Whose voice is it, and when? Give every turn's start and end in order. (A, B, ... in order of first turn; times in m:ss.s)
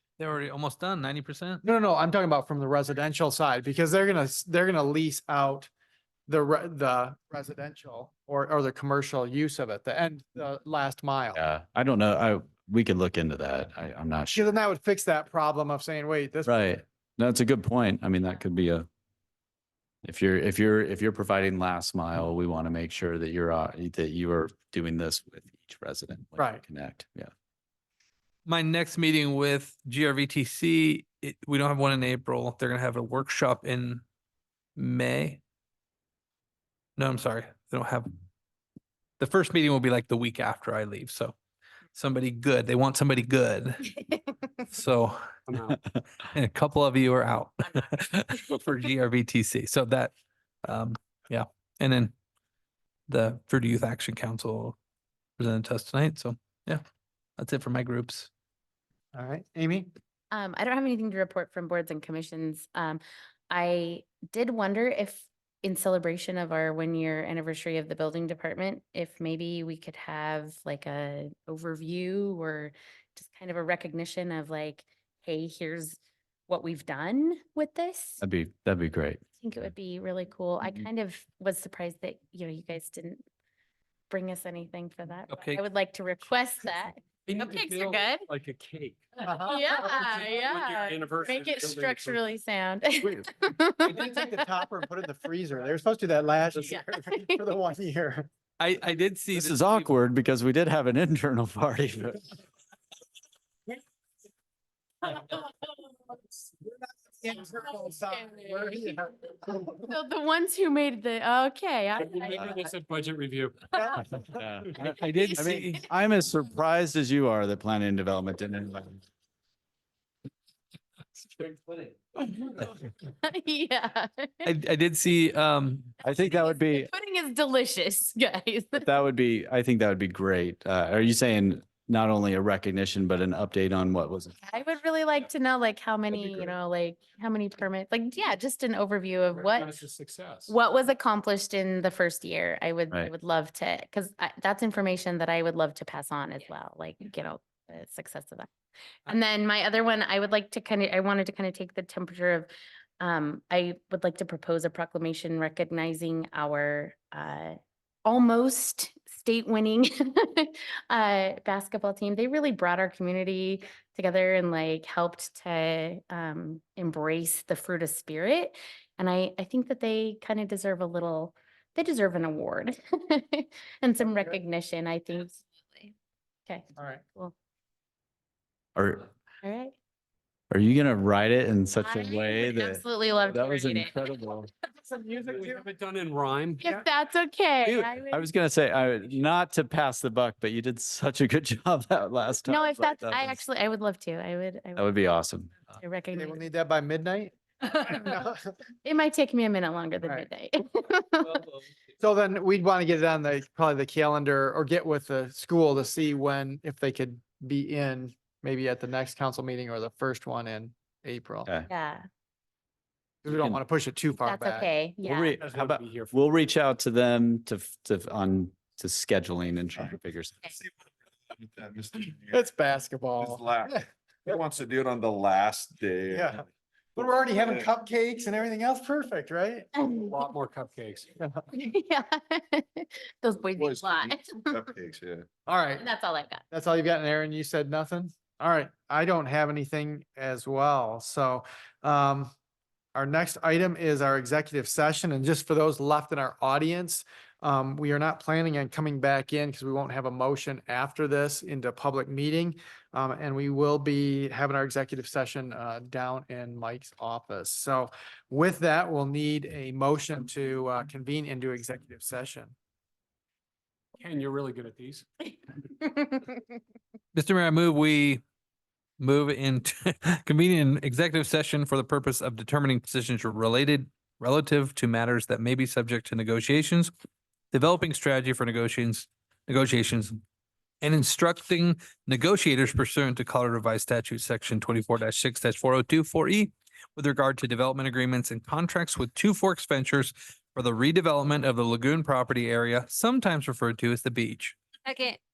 0:00.2-0:01.6 A
0:01.6-0:05.7 B
0:06.3-0:11.4 B
0:11.3-0:14.4 C
0:14.3-0:16.6 B
0:16.4-0:18.9 C
0:20.0-0:27.3 C
0:26.4-0:26.6 B
0:28.4-0:34.0 A
0:34.8-0:35.4 A
0:37.0-0:38.1 A
0:39.2-0:41.3 A
0:42.0-0:43.9 A
0:43.9-0:44.3 D
0:44.7-0:45.2 A
0:45.5-0:45.8 E
0:46.3-0:50.1 A
0:50.6-0:52.1 A
0:53.1-0:54.8 A
0:55.4-0:56.8 A
0:57.4-0:58.3 A
0:59.1-0:59.9 B
1:00.3-1:18.2 D
1:18.2-1:19.2 C
1:19.4-1:23.2 D
1:24.1-1:28.3 D
1:25.3-1:25.6 A
1:27.2-1:32.2 E
1:29.2-1:29.9 B
1:29.4-1:34.3 D
1:33.0-1:33.3 C
1:33.8-1:38.3 B
1:36.6-1:37.4 D
1:38.6-1:39.9 A
1:39.3-1:42.3 C
1:45.0-1:46.2 D
1:46.6-1:49.9 B
1:47.6-1:49.0 D
1:49.8-1:52.6 D
1:52.0-1:53.7 E
1:53.7-1:54.2 B
1:54.3-1:59.0 C
1:54.8-1:55.8 A
1:54.8-1:55.7 D
2:01.3-2:01.9 E
2:02.2-2:04.5 D
2:04.4-2:05.9 A
2:06.0-2:06.9 C
2:06.0-2:08.9 D
2:08.8-2:14.3 C
2:14.4-2:19.8 D
2:16.1-2:16.4 C
2:19.4-2:20.5 E
2:20.5-2:28.5 D
2:29.0-2:55.9 D
2:56.5-2:57.3 D
2:56.8-2:57.0 B
2:58.8-2:59.0 C
2:59.4-2:59.7 D
3:00.5-3:04.5 C
3:01.8-3:04.0 D
3:04.8-3:05.7 B
3:05.3-3:06.6 E
3:06.6-3:08.2 D
3:07.6-3:13.4 C
3:12.5-3:14.9 D
3:14.8-3:15.6 C
3:15.7-3:16.4 D
3:16.1-3:18.4 B
3:17.7-3:18.0 D
3:18.8-3:21.4 D
3:22.0-3:31.5 B
3:31.7-3:32.0 D
3:33.2-3:34.7 B
3:33.3-3:33.6 C
3:34.2-3:35.4 D
3:35.0-3:40.4 C
3:35.4-3:36.2 E
3:35.4-3:35.8 B
3:41.3-3:42.4 F
3:42.3-3:44.3 B
3:43.2-3:46.3 F
3:46.1-3:46.4 B
3:47.0-3:49.7 B
3:47.0-3:47.7 F
3:49.8-3:50.2 D
3:50.0-3:51.1 E
3:51.2-3:51.5 B
3:51.5-3:54.7 D
3:53.6-3:55.3 F
3:55.4-3:55.8 B
3:55.8-3:56.4 D
3:56.5-4:02.3 B
4:02.9-4:22.5 B
4:24.0-4:25.0 E
4:25.8-4:26.4 D
4:27.1-4:28.2 A
4:29.0-4:36.9 A
4:37.5-4:40.2 A
4:40.8-4:54.6 A